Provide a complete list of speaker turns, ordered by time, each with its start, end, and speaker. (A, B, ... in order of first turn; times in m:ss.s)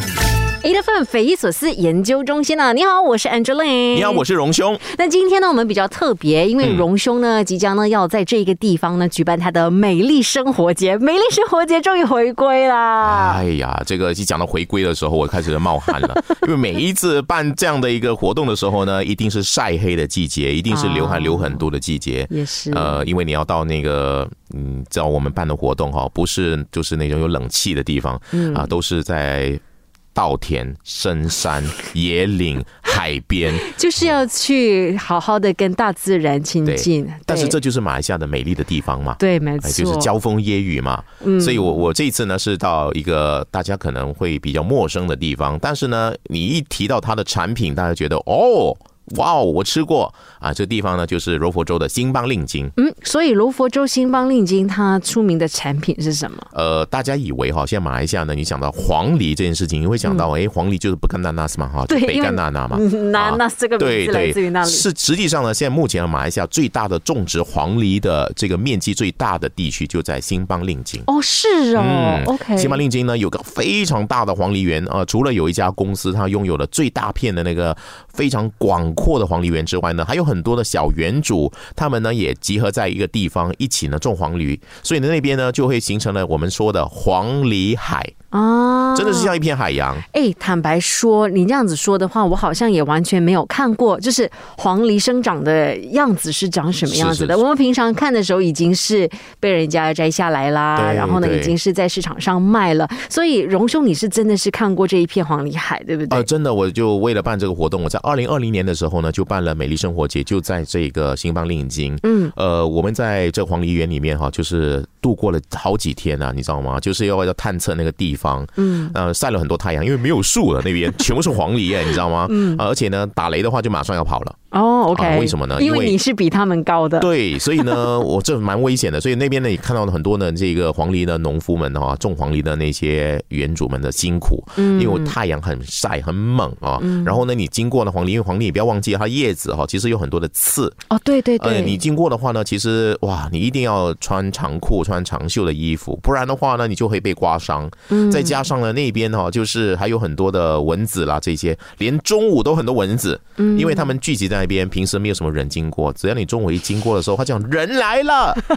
0:00.6-0:04.2 A
0:03.9-0:04.8 B
0:04.8-0:13.4 A
0:06.6-0:06.9 B
0:13.0-0:29.6 B
0:20.7-0:21.6 A
0:22.3-0:23.0 A
0:28.3-0:28.7 A
0:30.1-0:33.7 B
0:33.6-0:37.6 A
0:36.6-0:52.7 B
0:39.2-0:40.1 A
0:41.2-0:41.8 A
0:52.8-0:56.5 A
0:56.5-1:11.1 B
1:01.9-1:04.8 A
1:11.0-1:12.8 A
1:11.7-1:28.1 B
1:28.3-1:29.3 A
1:28.9-1:30.0 B
1:30.1-1:46.3 A
1:36.8-1:37.4 B
1:40.7-1:41.5 B
1:46.1-2:04.4 B
1:52.0-1:52.3 A
1:58.6-1:58.9 A
2:02.2-2:02.6 A
2:04.5-2:07.9 A
2:04.9-2:06.0 B
2:07.0-2:20.8 B
2:14.6-2:15.1 A
2:16.8-2:17.2 A
2:20.9-2:21.8 A
2:21.4-2:38.4 B
2:27.9-2:28.4 A
2:33.4-2:33.9 A